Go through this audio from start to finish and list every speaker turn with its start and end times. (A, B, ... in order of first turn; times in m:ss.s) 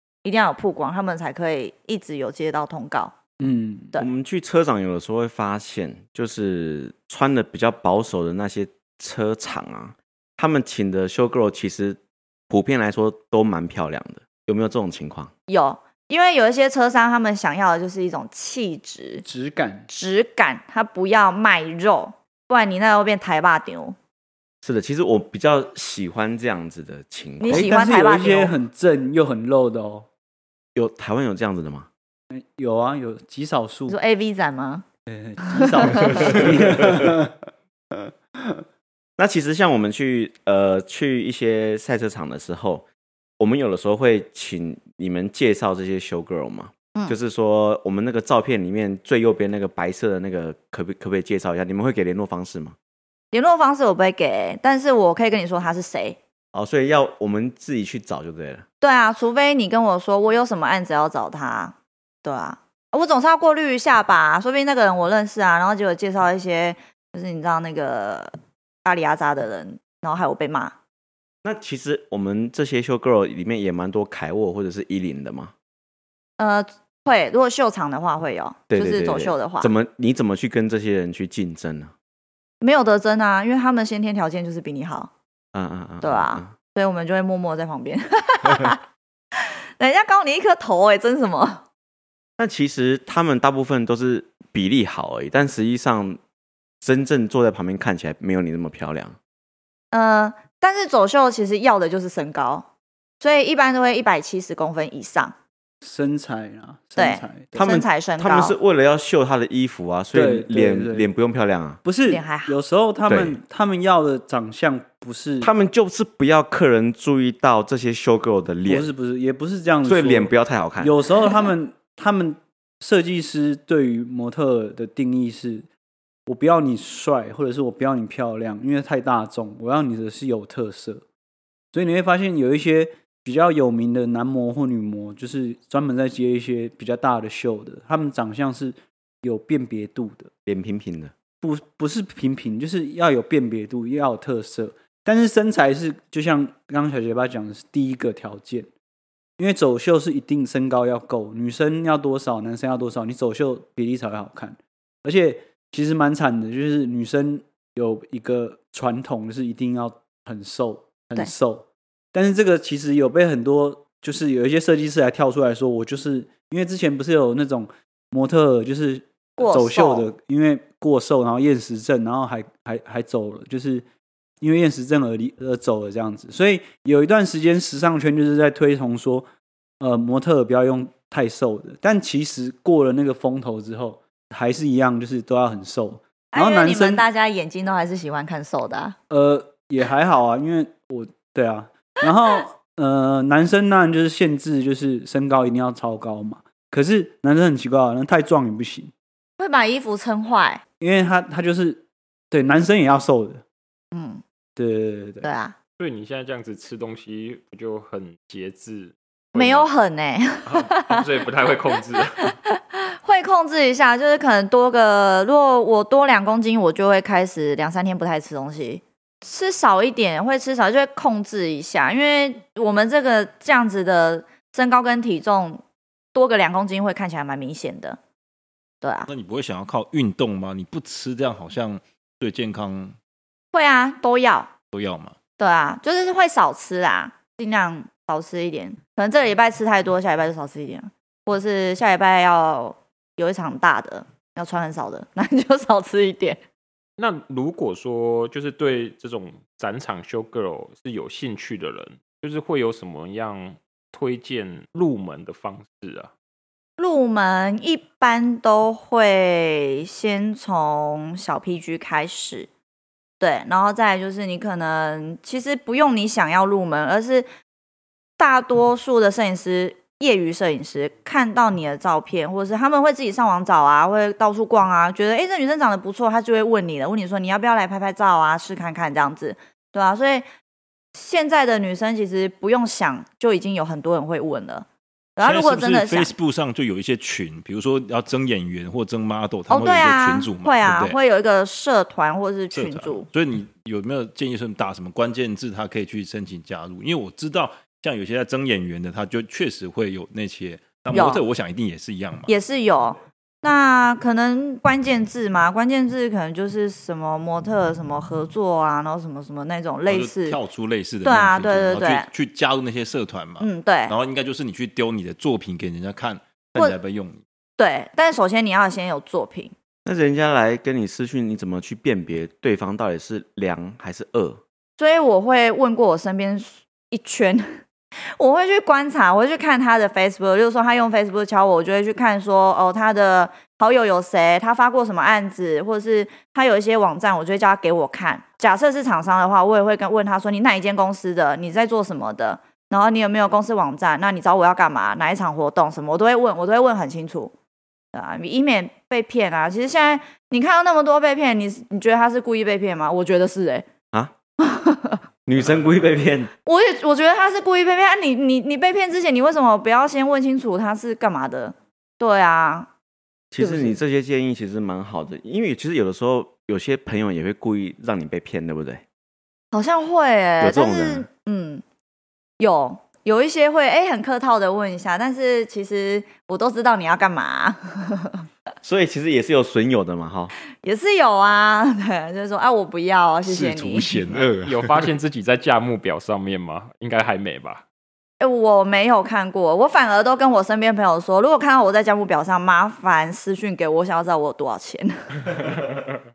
0:00.2-0:03.1 A
0:03.4-0:04.0 B
0:04.0-0:12.0 C
0:12.5-0:15.3 C
0:15.5-0:19.2 A
0:19.2-0:19.9 B
0:19.9-0:24.0 A
0:24.6-0:27.7 C
0:27.4-0:28.5 A
0:27.5-0:30.1 B
0:30.7-0:31.9 C
0:32.3-0:34.0 B
0:33.9-0:34.8 A
0:35.1-0:37.3 B
0:35.6-0:36.4 A
0:39.2-0:42.8 C
0:43.4-0:52.8 C
0:53.3-0:56.2 A
0:56.5-0:58.6 C
0:58.8-1:10.7 A
1:11.4-1:15.5 C
1:16.4-1:19.7 A
1:18.7-1:21.9 C
1:22.6-1:25.1 A
1:25.5-1:26.5 C
1:26.0-1:28.8 A
1:29.3-1:31.6 A
1:32.4-1:36.2 C
1:36.8-1:39.2 C
1:39.9-1:42.6 A
1:43.2-1:45.3 A
1:45.8-1:47.6 B
1:47.0-1:48.5 A
1:47.5-1:51.8 C
1:50.1-1:51.1 B
1:51.8-1:55.5 B
1:52.1-1:52.6 A
1:53.0-1:53.4 C
1:55.4-1:58.9 C
1:58.7-2:05.7 B
1:59.8-2:01.0 C
2:06.2-2:11.0 B
2:11.7-2:20.3 B
2:20.4-2:21.1 C
2:21.4-2:28.7 B
2:29.4-2:53.8 B
2:49.4-2:50.1 A
2:54.4-2:59.3 B
2:59.8-3:07.0 B
3:06.3-3:09.0 A
3:09.1-3:18.9 B
3:19.4-3:20.6 A
3:20.8-3:23.4 B
3:23.9-3:24.2 A
3:24.6-3:25.3 B
3:25.2-3:25.6 A
3:25.8-3:29.7 D
3:29.3-3:31.1 A
3:30.4-3:32.3 D
3:32.2-3:45.6 A
3:46.1-3:48.0 A
3:48.8-3:49.1 A
3:49.1-3:52.9 E
3:53.5-3:54.5 A
3:54.7-3:55.2 E
3:55.4-4:06.4 A
4:07.0-4:16.1 D
4:16.8-4:22.5 A
4:23.2-4:27.3 A
4:28.2-4:40.2 A
4:40.9-4:44.6 A
4:45.2-4:46.1 A
4:45.2-4:51.0 E
4:49.5-4:53.1 A
4:52.5-5:02.3 E
5:00.9-5:01.2 A
5:02.3-5:10.4 A
5:09.9-5:17.2 E
5:11.0-5:12.1 A
5:13.4-5:13.9 A
5:17.6-5:19.5 A
5:19.8-5:24.4 C
5:24.8-5:27.6 A
5:28.2-5:47.3 A
5:47.9-5:53.7 A
5:54.4-5:55.0 A
5:55.2-5:56.3 C
5:56.4-6:02.7 A
6:03.3-6:08.8 C
6:03.4-6:03.8 A
6:09.5-6:11.6 A
6:10.4-6:11.1 C
6:12.4-6:18.2 A
6:18.6-6:20.3 C
6:20.6-6:24.0 A
6:23.2-6:24.9 E
6:24.4-6:27.6 D
6:28.2-6:35.2 A
6:35.3-6:35.8 D